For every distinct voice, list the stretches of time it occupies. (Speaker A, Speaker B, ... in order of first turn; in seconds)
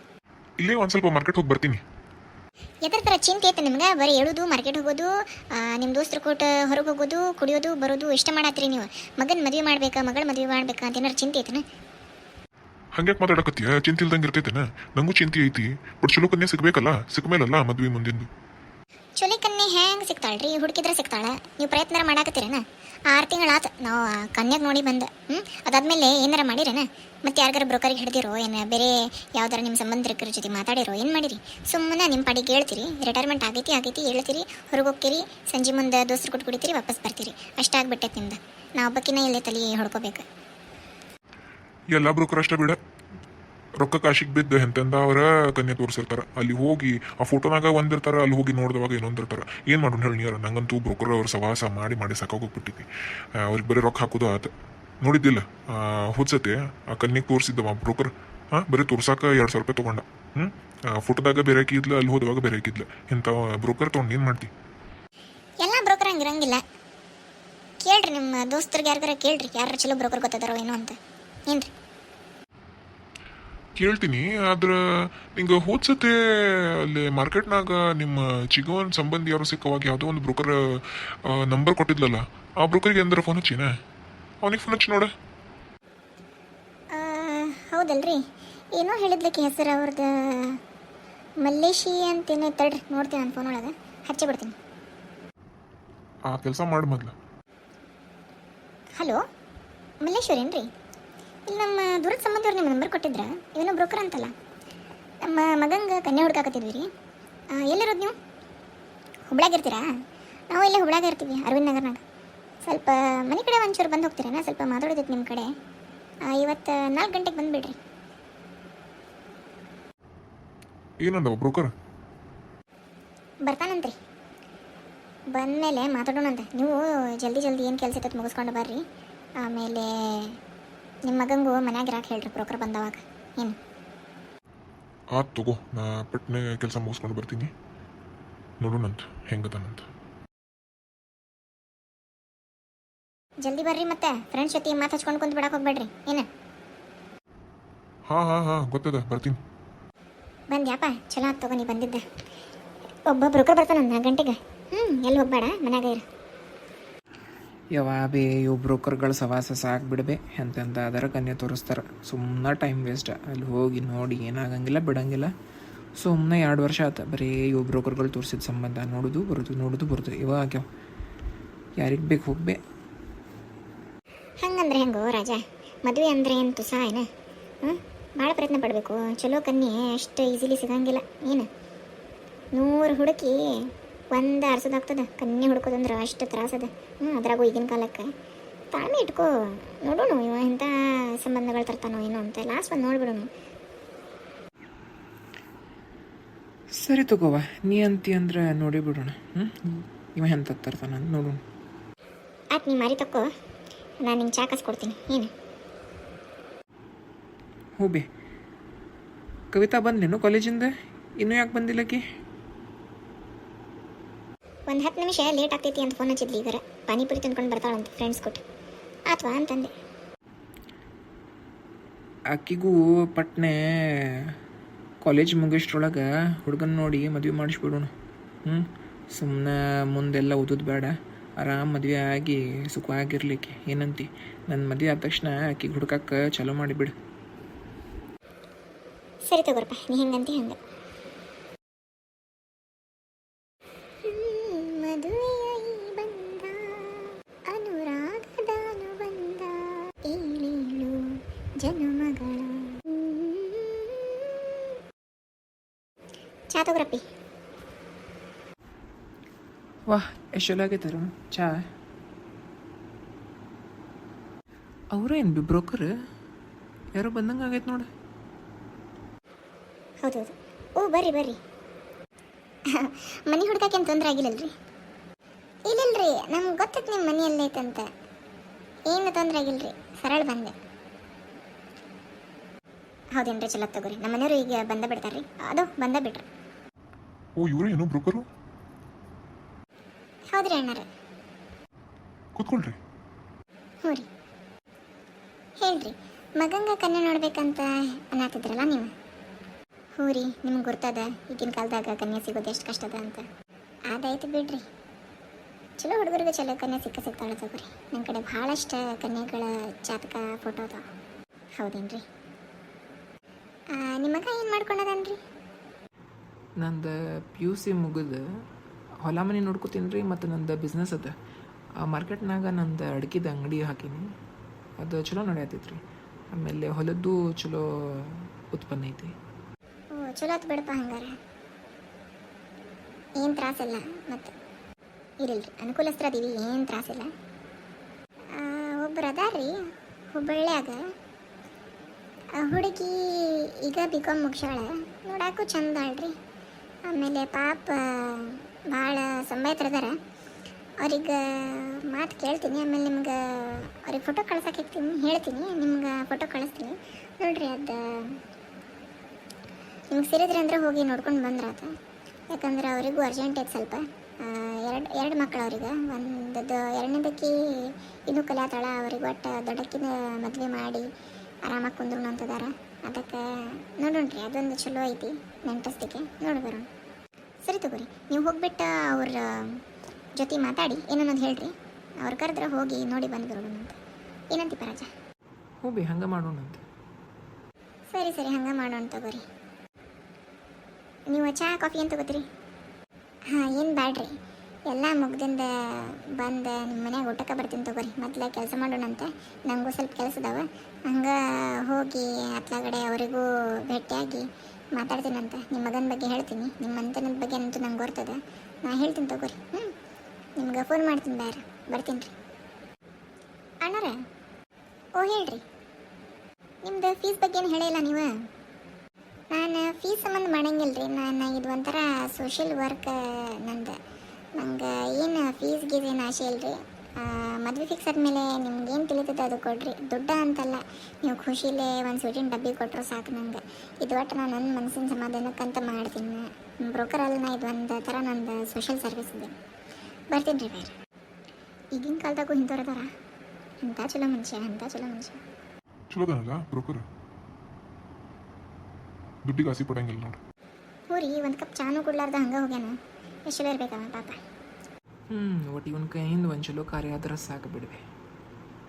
Speaker A: 0.6-1.8, 13.0-18.3, 41.9-42.8, 43.8-52.9, 53.4-54.5, 55.0-64.5, 73.8-74.8, 75.4-83.7, 84.4-85.1, 96.3-97.1, 121.0-121.7, 135.2-137.5, 138.6-139.8, 148.1-149.4, 287.4-288.3, 292.4-292.8, 445.9-446.8, 449.3-450.2
Speaker B: 2.9-11.6, 19.2-40.3, 65.6-66.6, 67.8-71.0, 86.9-88.2, 88.8-90.6, 91.4-94.5, 100.0-100.7, 101.5-104.3, 105.2-106.9, 107.5-108.2, 109.3-109.9, 110.5-112.0, 112.6-115.5, 116.3-117.8, 123.5-124.0, 125.3-128.8, 129.4-130.4, 131.1-133.6, 143.4-146.3, 150.5-152.0, 153.1-156.0, 174.4-177.1, 177.6-181.5, 182.6-188.1, 188.7-193.3, 202.5-203.3, 204.0-205.3, 214.7-218.4, 219.1-219.7, 239.3-240.6, 244.0-254.4, 256.5-257.0, 270.0-271.4, 272.7-274.5, 275.7-277.9, 278.9-280.5, 283.1-286.3, 290.3-290.9, 295.6-298.9, 300.0-303.3, 303.9-304.6, 305.8-310.8, 311.6-312.0, 313.8-315.2, 329.9-331.1, 333.2-334.3, 335.2-337.1, 338.3-339.6, 340.1-340.8, 342.4-346.1, 346.9-350.0, 350.8-358.2, 359.9-361.7, 362.3-370.9, 371.4-376.7, 377.4-379.6, 380.2-383.8, 384.3-384.9, 387.9-389.2, 391.1-392.2, 393.3-394.1, 394.7-409.7, 410.4-412.1, 413.6-414.0, 415.0-415.4, 416.6-418.1, 419.3-423.8, 424.4-439.3, 440.1-440.7, 441.8-442.9, 443.6-445.2, 450.9-452.8, 453.3-454.2
Speaker C: 157.8-165.3, 166.0-170.7, 171.8-172.6, 196.8-201.4, 207.8-208.1, 209.5-212.0, 222.3-224.3, 225.0-227.9, 228.5-236.9, 259.9-261.6, 264.9-265.9, 267.0-267.9, 316.6-318.2, 319.0-321.1, 321.8-324.0, 324.8-325.8, 326.3-329.1, 385.6-386.6, 455.1-457.8